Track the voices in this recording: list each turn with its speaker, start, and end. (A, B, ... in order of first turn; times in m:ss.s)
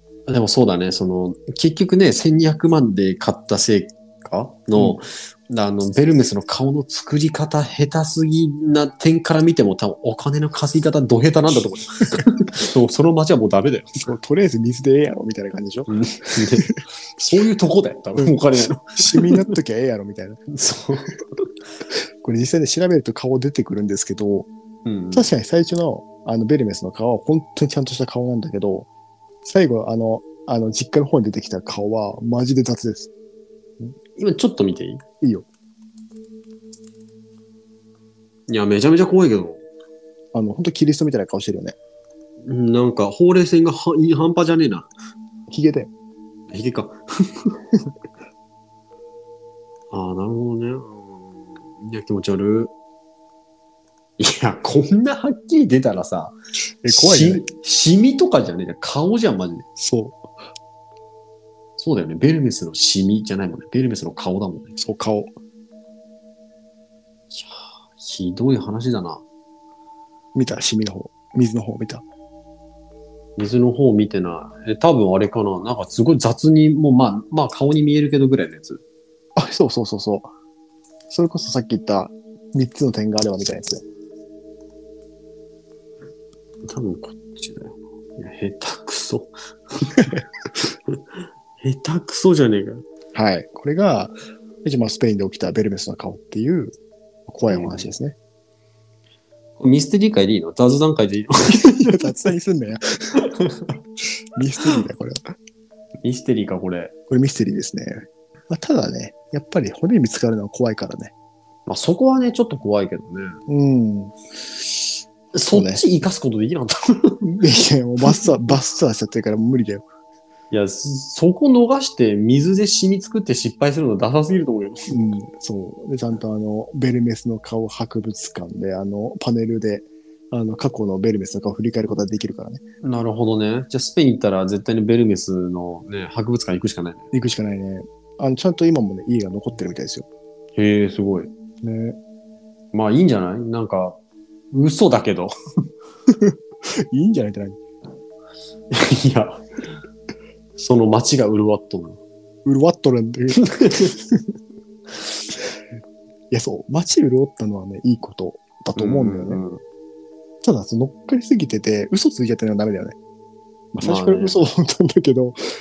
0:00.3-0:13.9 A
0:14.0-0:15.9 B
0:15.9-0:19.5 A
0:19.0-0:20.4 B
0:20.5-0:21.5 A
0:22.2-0:24.5 B
0:24.8-0:25.3 A
0:25.1-0:28.9 B
0:29.4-0:33.1 B
0:34.1-0:35.0 A
0:38.5-0:39.6 A
0:40.3-0:41.7 B
0:42.4-0:44.9 A
0:45.5-0:45.9 B
0:46.5-0:47.6 A
0:49.9-0:52.7 A
0:54.2-0:56.4 A
0:56.8-0:57.4 B
0:56.9-0:59.6 A
0:59.8-1:00.2 B
1:01.8-1:04.7 A
1:04.8-1:05.3 B
1:07.3-1:09.2 A
1:10.3-1:12.0 B
1:13.4-1:18.8 A
1:19.4-1:20.3 B
1:21.1-1:23.8 B
1:26.6-1:30.1 A
1:30.6-1:31.0 A
1:31.6-1:32.8 A
1:33.1-1:36.8 B
1:37.3-1:38.1 B
1:37.5-1:37.9 A
1:39.6-1:42.1 A
1:41.5-1:43.2 B
1:43.1-1:43.7 A
1:44.4-1:45.2 B
1:46.0-1:46.9 A
1:47.1-1:51.1 B
1:51.7-1:53.4 A
1:53.5-1:54.1 B
1:55.3-1:57.3 A
1:55.5-1:55.8 B
1:57.2-1:59.9 B
2:00.5-2:05.0 A
2:04.9-2:12.6 B
2:12.8-2:17.1 A
2:17.1-2:20.1 B
2:20.6-2:21.3 A
2:21.6-2:22.0 B
2:22.7-2:24.0 A
2:24.5-2:25.4 A
2:26.1-2:26.4 B
2:26.9-2:27.6 B
2:28.7-2:29.4 A
2:30.6-2:32.0 A
2:32.4-2:34.2 B
2:33.4-2:33.9 A
2:36.3-2:39.4 B
2:38.8-2:39.6 A
2:40.4-2:43.0 B
2:43.7-2:45.4 B
2:43.8-2:44.4 A